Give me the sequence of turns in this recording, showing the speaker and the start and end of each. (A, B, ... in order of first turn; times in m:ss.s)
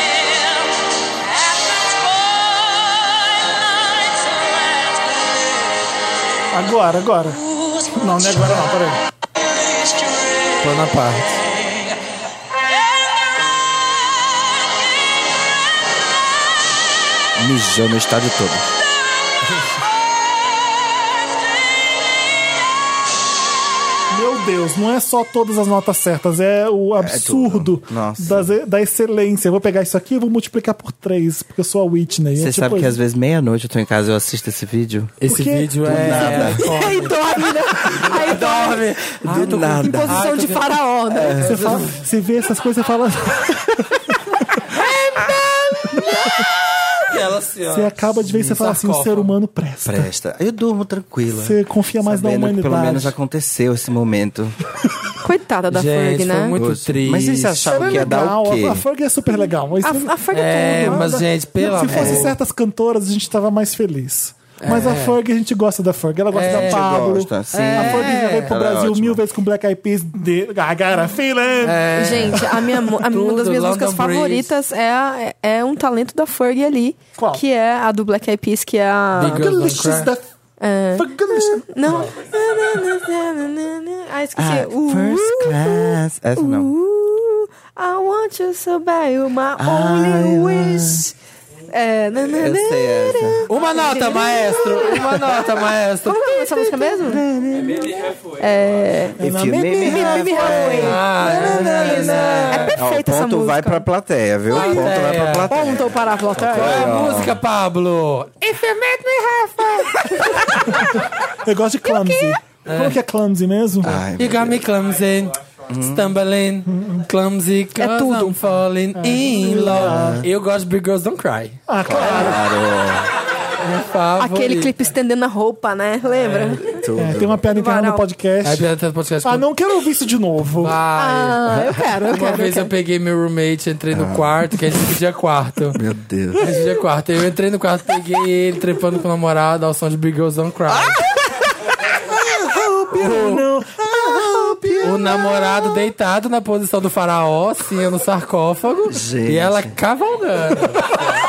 0:06.5-0:09.0 A
0:10.6-0:11.4 B
0:17.4-0:18.7 C
0:24.1-0:33.0 A
0:27.0-0:28.5 C
0:32.4-0:35.1 C
0:35.2-0:37.2 B
0:35.3-0:36.5 A
0:35.8-0:36.6 C
0:36.6-0:38.9 D
0:37.9-0:40.7 B
0:39.2-0:40.3 C
0:39.9-0:41.5 D
0:41.1-0:41.8 C
0:41.4-0:42.0 B
0:41.4-0:44.2 A
0:47.1-0:49.3 B
0:47.7-0:50.1 A
0:49.8-0:54.6 C
0:51.3-0:53.2 A
0:55.2-0:56.6 D
0:55.7-0:58.1 B
0:56.6-0:58.8 C
0:57.7-1:12.4 A
0:59.8-1:01.2 D
1:00.3-1:02.3 B
1:01.9-1:02.3 C
1:04.6-1:05.2 B
1:06.3-1:06.9 B
1:06.5-1:09.2 C
1:07.5-1:08.5 B
1:11.6-1:14.5 B
1:11.9-1:19.5 D
1:17.2-1:17.4 A
1:19.2-1:20.1 B
1:19.2-1:20.3 A
1:20.6-1:31.1 D
1:21.0-1:22.1 A
1:24.4-1:26.7 C
1:29.6-1:31.1 C
1:31.7-1:35.2 D
1:32.2-1:33.4 C
1:33.5-1:36.4 B
1:36.0-1:37.2 D
1:36.8-1:38.2 C
1:38.4-1:39.2 D
1:39.2-1:42.4 A
1:39.2-1:47.4 C
1:39.7-1:43.8 D
1:40.8-1:42.8 B
1:44.5-1:45.5 B
1:44.5-1:44.9 D
1:45.5-1:47.0 D
1:46.5-1:50.4 B
1:50.7-1:54.0 A
1:52.6-1:53.0 B
1:53.8-1:54.6 C
1:53.9-2:01.6 B
1:55.7-1:56.1 C
1:56.7-1:57.0 A
1:57.8-1:58.4 D
1:59.0-2:00.3 A
1:59.7-2:00.3 C
2:01.7-2:02.5 A
2:01.8-2:03.1 C
2:02.0-2:02.3 D
2:03.6-2:04.7 B
2:04.2-2:06.6 D
2:06.2-2:06.6 B
2:06.7-2:07.4 C
2:07.0-2:08.7 A
2:07.5-2:08.0 D
2:08.4-2:09.5 B
2:09.2-2:10.8 A
2:10.6-2:15.8 B
2:11.0-2:12.7 D
2:13.9-2:14.5 C
2:15.7-2:16.5 C
2:16.4-2:21.0 B
2:22.5-2:23.3 C
2:22.5-2:25.5 A
2:23.0-2:23.4 B
2:23.8-2:25.3 C
2:24.8-2:31.1 B
2:28.9-2:29.7 C